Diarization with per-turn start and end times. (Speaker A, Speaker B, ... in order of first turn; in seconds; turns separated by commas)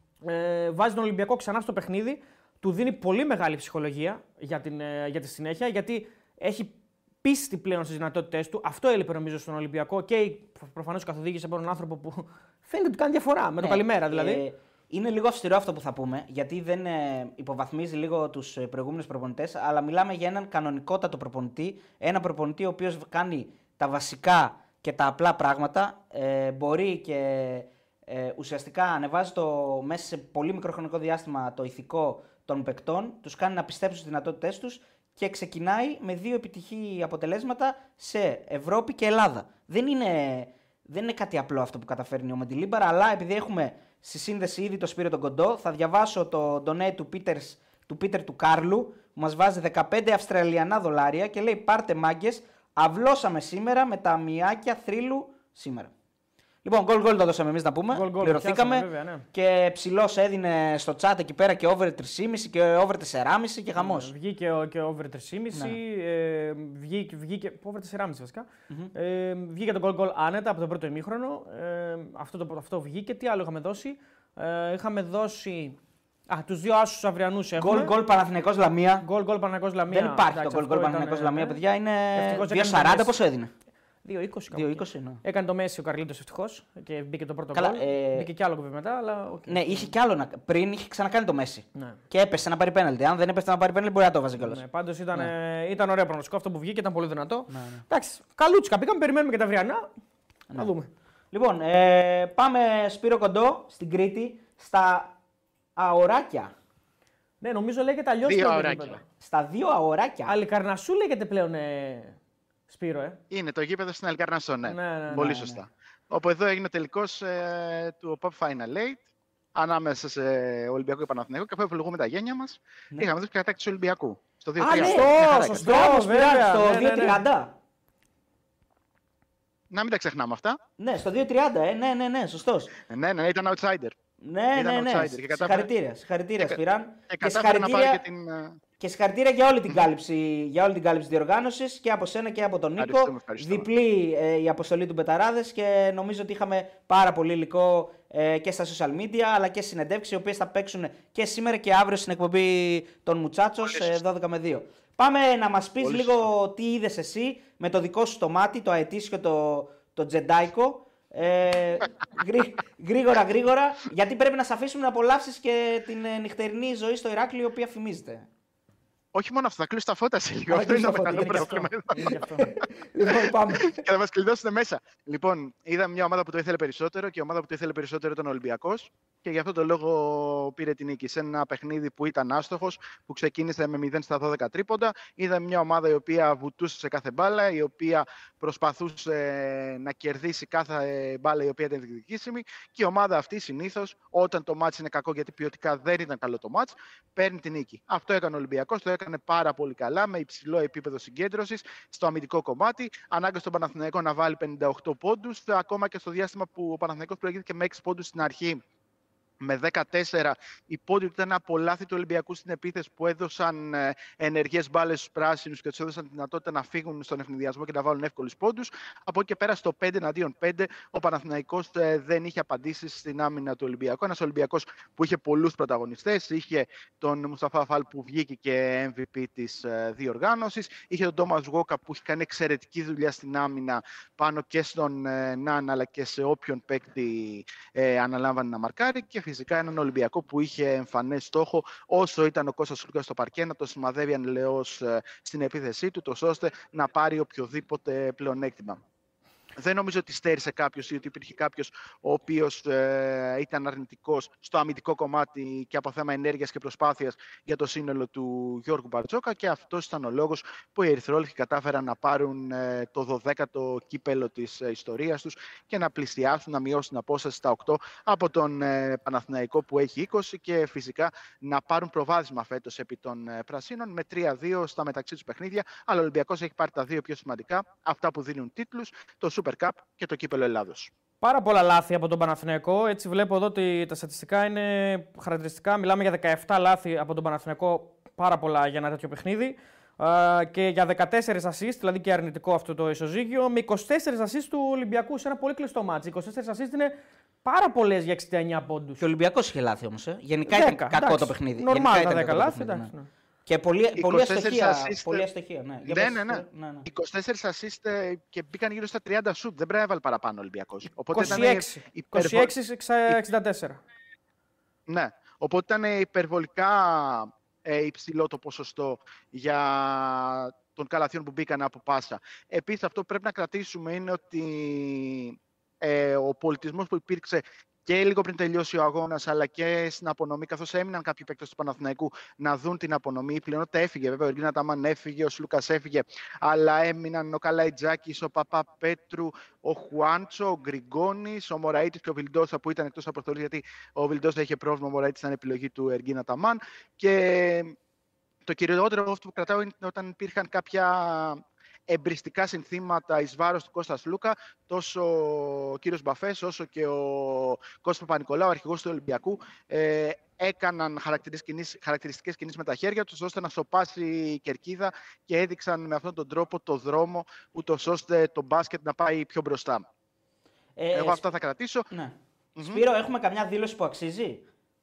Speaker A: 0.2-14.4, Speaker B: 13.6-55.9, Speaker B: 56.6-64.1, Speaker A: 57.9-59.3, Speaker A: 63.8-75.8, Speaker B: 65.5-65.8, Speaker A: 76.3-77.9, Speaker B: 77.6-79.1, Speaker A: 79.0-81.6, Speaker B: 79.9-83.5, Speaker A: 82.1-83.1, Speaker A: 84.0-89.9, Speaker B: 84.5-85.2, Speaker B: 87.5-88.3, Speaker B: 89.5-94.6, Speaker A: 94.4-99.9, Speaker B: 97.5-97.8, Speaker A: 100.5-100.9, Speaker B: 101.3-105.2, Speaker B: 105.8-106.5, Speaker A: 107.4-109.0, Speaker C: 108.2-109.0, Speaker B: 109.2-110.3, Speaker A: 110.3-112.2, Speaker A: 112.7-113.2, Speaker C: 113.3-119.0, Speaker A: 114.7-115.4, Speaker B: 115.1-115.6, Speaker C: 119.5-125.7, Speaker B: 124.6-127.5, Speaker A: 124.6-127.2, Speaker C: 129.7-130.6, Speaker B: 130.8-132.7, Speaker C: 132.8-134.0, Speaker B: 134.2-138.0, Speaker C: 134.5-135.7, Speaker C: 137.1-138.6, Speaker B: 138.8-168.3, Speaker C: 142.8-143.7, Speaker C: 169.1-172.0, Speaker B: 170.5-173.8, Speaker A: 170.6-172.5, Speaker C: 173.6-208.6, Speaker C: 209.4-248.8, Speaker C: 249.6-280.9, Speaker A: 281.2-299.0, Speaker B: 299.0-302.9, Speaker A: 300.5-303.1, Speaker B: 303.5-306.9, Speaker C: 304.0-305.2, Speaker C: 305.9-312.5, Speaker A: 311.1-313.8, Speaker C: 314.9-347.8, Speaker C: 348.5-369.9, Speaker B: 370.8-371.2, Speaker C: 370.9-371.9, Speaker B: 371.9-374.4, Speaker C: 372.6-372.8